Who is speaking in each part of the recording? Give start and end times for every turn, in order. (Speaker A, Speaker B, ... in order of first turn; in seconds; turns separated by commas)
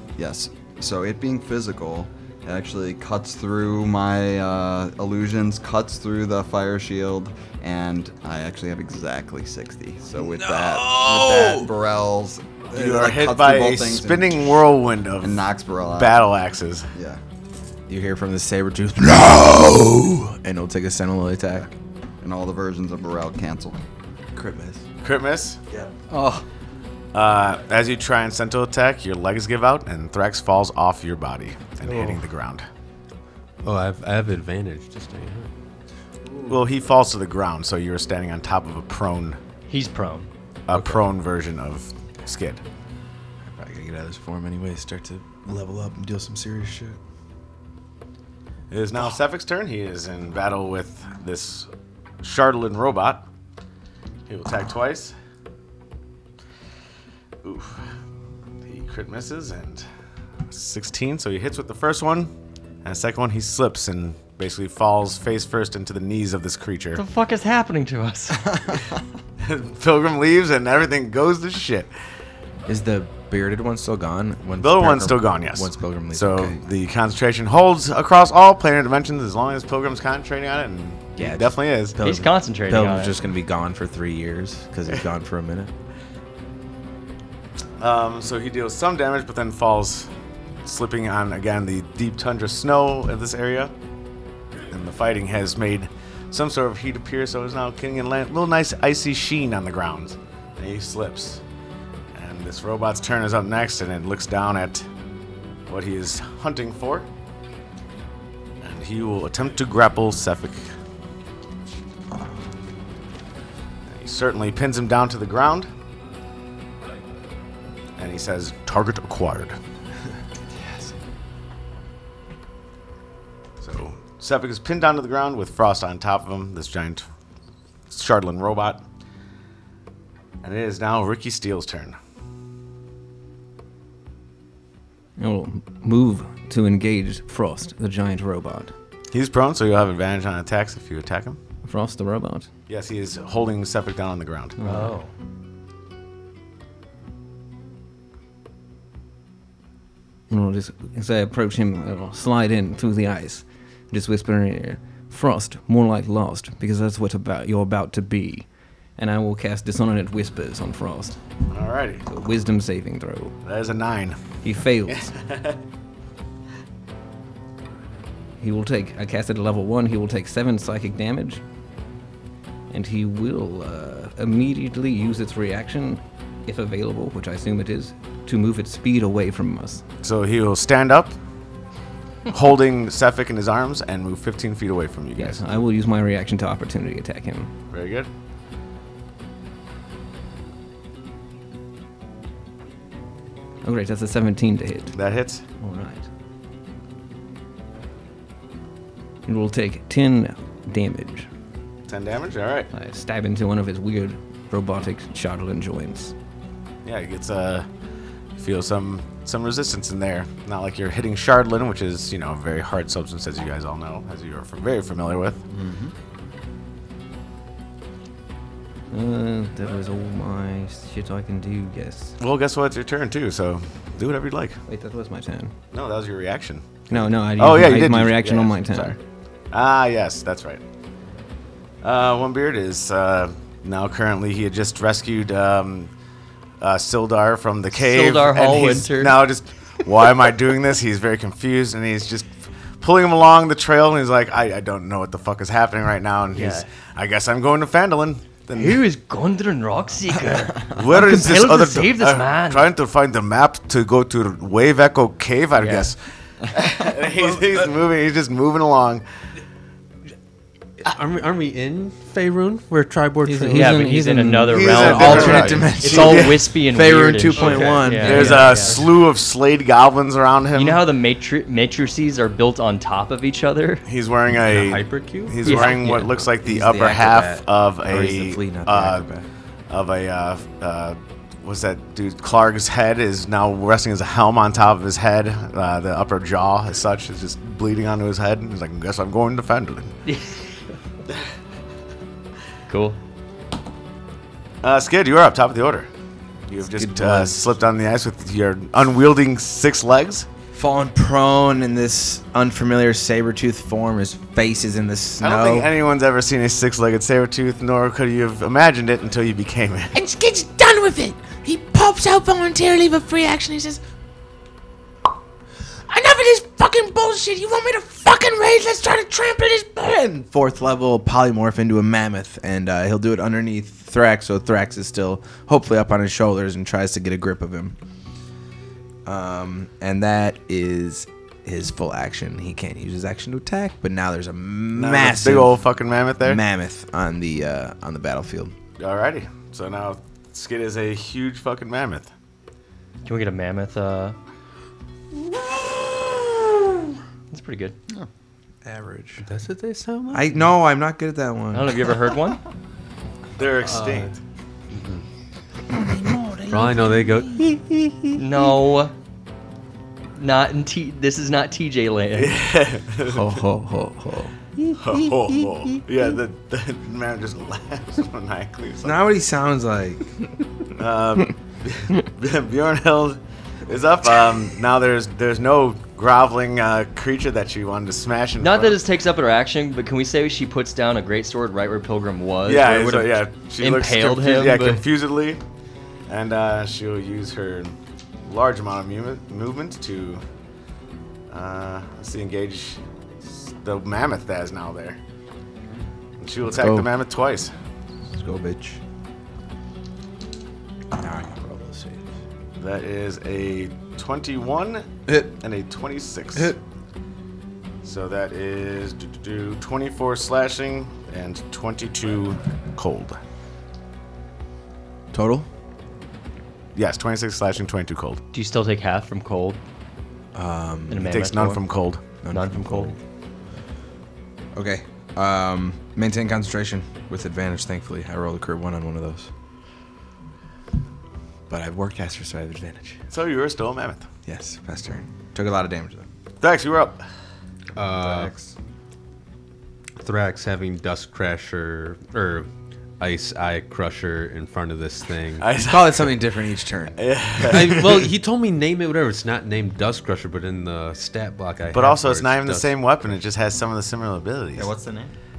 Speaker A: 0.2-14.6, Speaker B: 10.2-11.7, Speaker C: 12.7-16.9, Speaker A: 15.2-16.3, Speaker A: 16.9-17.2, Speaker B: 17.9-21.7, Speaker A: 22.2-23.8, Speaker B: 24.3-24.8, Speaker C: 25.0-25.6, Speaker B: 25.7-26.4, Speaker C: 27.1-32.6, Speaker D: 33.6-35.5, Speaker C: 36.5-39.4, Speaker E: 39.7-40.3, Speaker C: 40.7-42.6, Speaker D: 40.7-41.0, Speaker B: 43.4-47.0, Speaker C: 48.7-51.7, Speaker C: 52.2-53.2, Speaker C: 54.3-55.1, Speaker C: 57.4-57.8, Speaker C: 58.6-59.9, Speaker C: 60.5-62.3, Speaker C: 62.8-67.0, Speaker E: 66.9-68.4, Speaker C: 69.4-71.9, Speaker B: 72.7-76.6, Speaker C: 74.6-82.0, Speaker B: 81.2-85.7, Speaker E: 82.0-83.2, Speaker C: 87.8-90.1, Speaker C: 90.6-93.7, Speaker C: 94.7-101.4, Speaker C: 102.1-104.8, Speaker C: 105.7-107.1, Speaker C: 108.6-110.7, Speaker C: 113.9-115.7, Speaker C: 118.0-119.6, Speaker C: 123.6-127.0, Speaker C: 127.9-128.8, Speaker C: 130.4-132.0, Speaker F: 135.2-138.7, Speaker C: 139.1-141.4, Speaker F: 141.6-142.5, Speaker C: 142.7-144.6, Speaker F: 144.6-145.0, Speaker E: 144.7-145.1, Speaker F: 150.3-161.2, Speaker C: 161.5-162.0, Speaker F: 162.1-163.4, Speaker C: 163.4-164.2, Speaker F: 164.4-165.1, Speaker C: 164.9-165.6, Speaker F: 168.4-171.4, Speaker F: 172.7-179.8, Speaker C: 180.0-181.2, Speaker C: 182.3-185.4, Speaker F: 185.2-187.5, Speaker C: 187.7-188.1, Speaker F: 193.6-194.9, Speaker C: 194.9-195.4, Speaker F: 195.6-196.1, Speaker F: 199.2-201.3, Speaker C: 201.9-202.7, Speaker F: 202.7-206.1, Speaker C: 206.8-207.7, Speaker C: 208.3-215.4, Speaker A: 215.5-215.9, Speaker F: 218.9-222.2, Speaker C: 222.2-224.6, Speaker F: 224.7-225.5, Speaker C: 225.7-229.0, Speaker F: 226.9-229.0, Speaker C: 229.5-230.6, Speaker C: 231.8-235.9, Speaker C: 236.6-248.8, Speaker E: 237.7-239.2, Speaker E: 246.3-246.7, Speaker E: 248.5-252.7, Speaker C: 250.7-256.0, Speaker E: 255.6-255.9, Speaker C: 256.5-259.0, Speaker D: 260.8-263.8, Speaker F: 263.2-265.4, Speaker E: 263.5-268.8, Speaker C: 264.5-266.4, Speaker B: 264.8-268.4, Speaker D: 267.3-268.8, Speaker C: 268.0-270.8, Speaker E: 270.5-273.8, Speaker C: 273.9-279.1, Speaker D: 274.4-275.4, Speaker E: 275.4-275.8, Speaker B: 275.5-279.2, Speaker C: 279.7-289.9, Speaker E: 290.1-290.4, Speaker E: 292.7-293.0, Speaker C: 294.6-295.9, Speaker C: 296.5-300.3, Speaker B: 296.6-297.4, Speaker B: 300.5-305.7, Speaker C: 305.2-309.9, Speaker G: 309.9-313.8, Speaker G: 315.9-320.1, Speaker B: 319.9-327.8, Speaker B: 329.0-335.6, Speaker C: 334.7-336.4, Speaker B: 336.2-338.5, Speaker C: 338.8-342.1, Speaker E: 343.0-344.1, Speaker E: 347.3-347.7, Speaker B: 348.6-349.2, Speaker D: 349.2-350.5, Speaker B: 350.1-351.9, Speaker E: 351.5-352.4, Speaker C: 353.4-354.1, Speaker D: 353.6-354.1, Speaker D: 354.7-355.0, Speaker G: 355.7-357.6, Speaker D: 356.5-357.4, Speaker E: 358.1-358.9, Speaker E: 360.1-362.4, Speaker C: 362.1-363.4, Speaker F: 363.1-364.3, Speaker C: 364.8-369.0, Speaker B: 368.8-370.1, Speaker C: 370.8-378.8, Speaker E: 378.4-384.8, Speaker C: 382.4-385.4, Speaker C: 386.1-387.7, Speaker C: 388.2-390.2, Speaker C: 391.3-392.8, Speaker C: 393.5-395.0, Speaker C: 396.2-397.5, Speaker B: 396.5-396.9, Speaker B: 398.1-398.8, Speaker B: 400.9-402.0, Speaker C: 402.6-406.6, Speaker C: 407.8-413.2, Speaker B: 415.1-415.5, Speaker C: 416.7-418.2, Speaker E: 418.3-419.6, Speaker B: 420.3-421.1, Speaker E: 420.9-421.6, Speaker C: 421.0-422.0, Speaker B: 422.2-423.0, Speaker E: 422.3-422.9, Speaker B: 424.5-429.3, Speaker B: 431.5-433.0, Speaker C: 433.1-434.1, Speaker B: 434.2-436.1, Speaker C: 436.4-437.0, Speaker D: 437.7-438.3, Speaker A: 437.8-438.5, Speaker D: 440.0-442.5, Speaker D: 443.0-445.5, Speaker C: 445.4-446.0, Speaker B: 445.6-447.0, Speaker C: 447.0-447.9, Speaker D: 447.5-452.8, Speaker C: 451.7-454.7, Speaker A: 454.5-455.1